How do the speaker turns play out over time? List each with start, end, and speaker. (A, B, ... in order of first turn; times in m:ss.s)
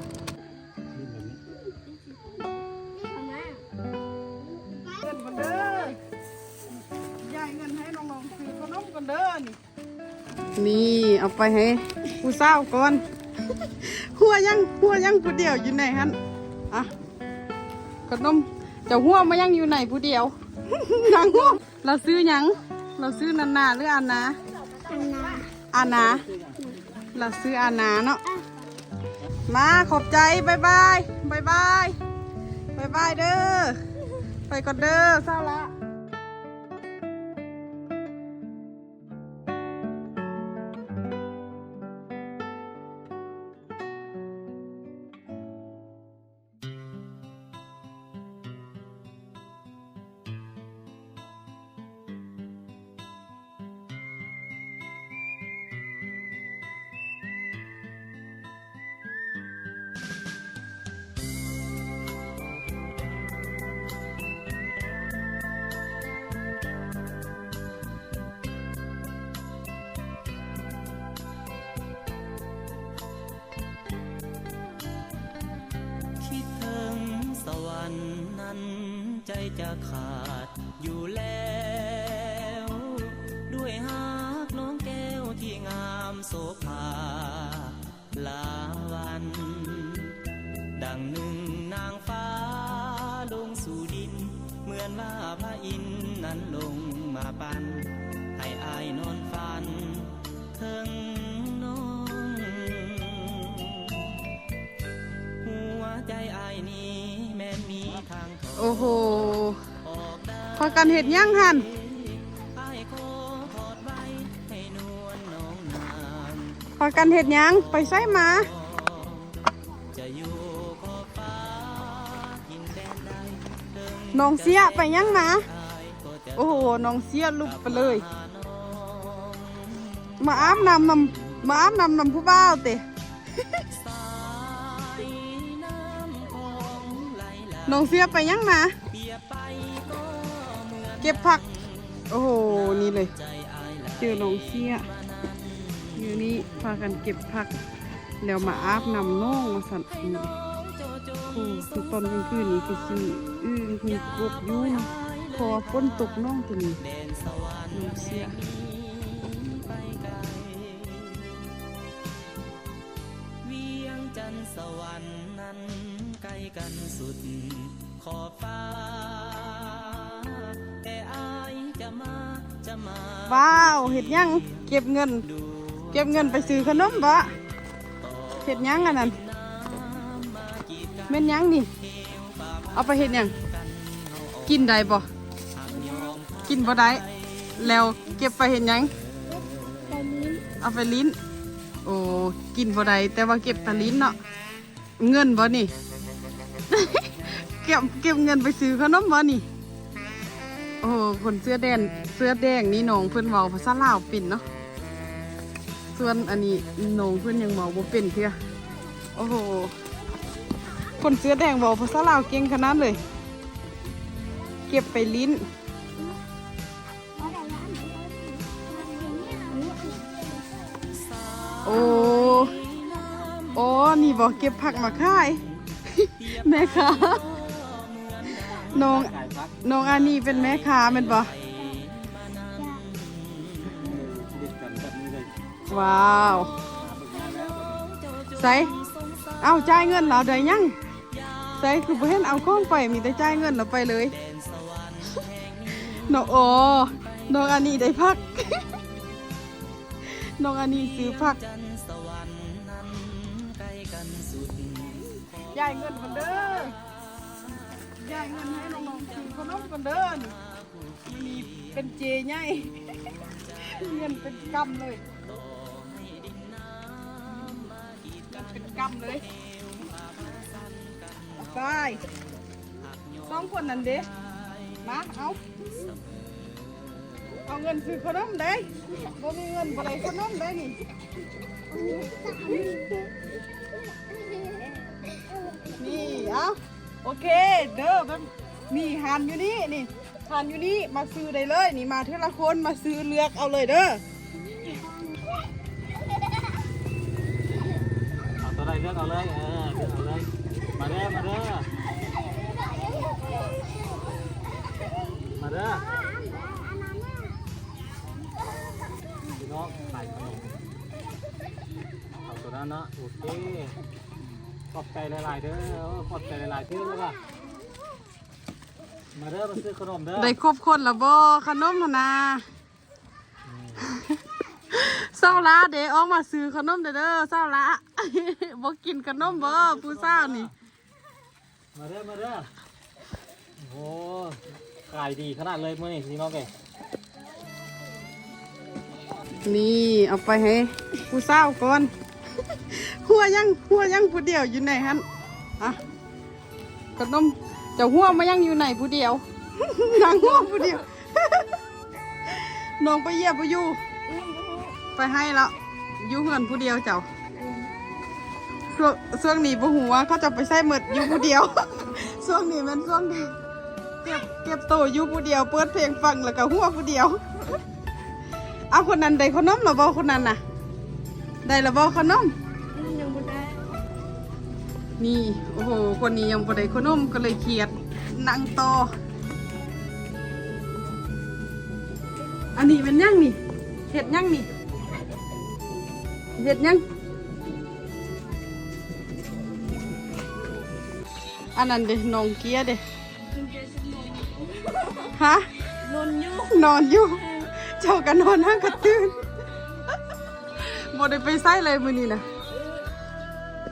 0:01.0-0:01.4 A
0:03.0-0:03.6 B
0:04.9-0:06.0 C
0:07.2-0:09.6 C
0:10.6-0:13.0 C
0:13.6-0:16.2 C
0:18.1-0:24.4 C
0:24.8-0:25.5 B
0:25.7-0:26.3 C
0:27.1-0:28.2 C
0:29.5-0:32.0 C
0:32.7-0:33.8 C
0:34.5-0:35.7 C
1:16.3-1:27.6 D
1:28.2-1:30.0 D
1:30.9-1:37.6 D
1:38.8-1:39.9 D
1:40.9-1:43.5 D
1:45.7-1:47.4 D
1:47.8-1:48.0 A
1:48.6-1:49.6 C
1:50.5-1:51.6 C
1:53.4-1:53.8 D
1:56.8-1:58.5 C
2:04.1-2:05.5 C
2:06.3-2:08.0 C
2:10.2-2:12.8 C
2:14.9-2:17.2 D
2:17.6-2:18.7 C
2:21.0-2:21.4 C
2:22.1-2:23.1 C
2:24.0-2:24.8 C
2:25.9-2:27.5 C
2:28.2-2:30.3 C
2:31.2-2:36.8 C
2:37.7-2:38.4 C
2:45.7-2:47.0 D
2:51.5-2:51.9 D
2:53.2-2:55.3 C
2:55.9-2:57.3 C
2:58.4-2:59.2 C
3:01.1-3:01.7 C
3:02.7-3:03.3 C
3:04.4-3:05.0 C
3:06.4-3:07.0 C
3:07.6-3:08.9 C
3:09.9-3:10.4 B
3:10.6-3:11.2 C
3:11.8-3:14.2 C
3:15.0-3:15.7 C
3:16.7-3:19.4 C
3:20.8-3:24.4 C
3:25.9-3:28.4 C
3:29.1-3:29.7 C
3:31.0-3:33.0 C
3:34.7-3:35.4 C
3:37.2-3:40.0 B
3:41.6-3:42.6 C
3:43.5-3:47.3 C
3:48.5-3:50.0 A
3:48.5-3:51.3 C
3:53.7-3:55.3 A
3:55.7-3:56.5 C
3:56.7-3:57.9 A
3:58.3-3:58.7 C
3:59.4-4:00.7 C
4:01.6-4:04.1 C
4:05.8-4:08.6 C
4:10.1-4:11.4 C
4:15.5-4:16.7 C
4:18.0-4:20.4 C
4:21.0-4:22.8 C
4:23.5-4:25.0 C
4:27.4-4:27.7 C
4:28.3-4:29.2 C
4:31.4-4:32.0 C
4:33.2-4:34.1 C
4:34.8-4:35.4 C
4:37.4-4:40.8 C
4:41.7-4:42.9 B
4:44.4-4:44.6 B
4:45.6-4:46.2 B
4:45.8-4:54.0 C
4:58.4-5:01.7 A
5:05.4-5:05.8 A
5:09.4-5:10.6 A
5:12.2-5:13.8 A
5:14.7-5:17.2 A
5:19.1-5:20.3 A
5:20.2-5:22.4 C
5:23.5-5:23.8 A
5:24.7-5:30.5 C
5:29.2-5:30.5 A
5:31.7-5:32.5 A
5:33.6-5:36.5 A
5:39.4-5:41.9 C
5:42.5-5:45.0 C
5:47.0-5:51.5 C
5:52.3-5:53.8 C
5:54.1-5:54.7 B
5:54.9-5:57.0 C
5:58.7-6:03.3 C
6:04.0-6:07.2 C
6:08.7-6:10.4 C
6:11.4-6:12.3 C
6:12.7-6:13.6 B
6:15.0-6:18.9 C
6:22.6-6:23.4 C
6:23.9-6:24.5 C
6:26.4-6:26.8 C
6:31.6-6:32.8 C
6:33.6-6:35.1 B
6:35.1-6:35.4 C
6:35.8-6:36.3 B
6:36.4-6:39.2 C
6:40.6-6:42.2 C